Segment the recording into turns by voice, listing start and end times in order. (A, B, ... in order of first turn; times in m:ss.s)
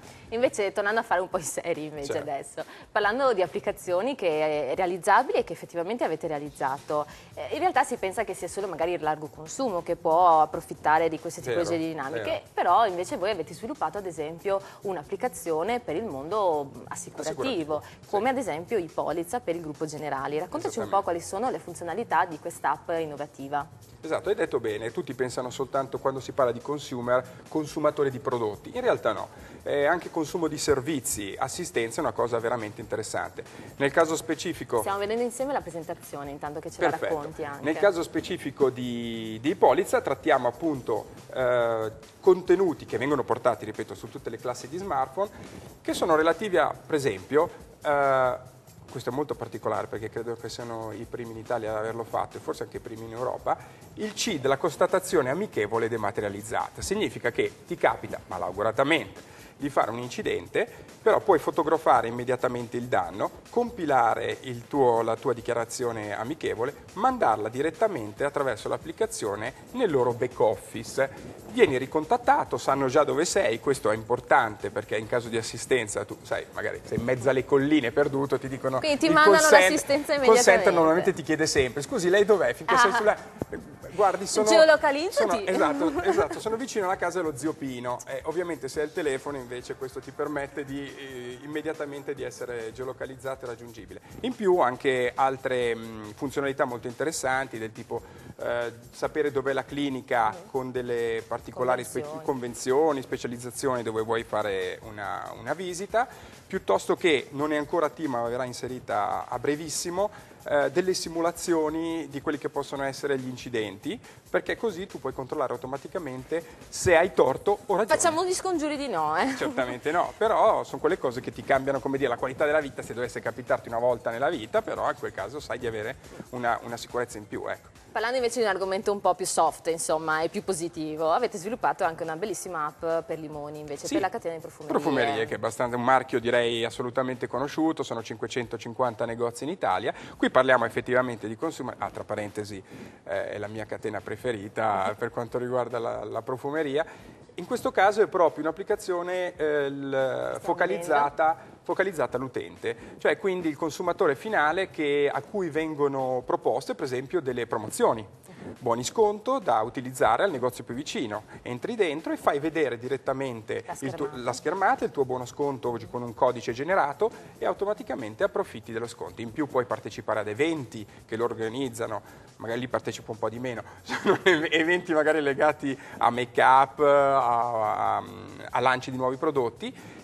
0:00.3-0:23.7 A
0:11.4-0:12.4 B
0:17.2-0:18.3 B
0:20.5-0:21.0 B
0:24.0-0:34.9 B
0:34.8-0:37.9 A
0:36.8-1:58.2 B
1:18.8-1:21.1 A
1:22.7-1:23.1 A
1:24.3-1:26.4 A
1:41.6-1:42.3 A
1:57.9-1:59.7 A
1:59.4-2:07.7 B
2:07.9-2:15.4 A
2:14.7-2:59.8 B
2:30.3-2:31.1 A
2:43.7-2:44.4 A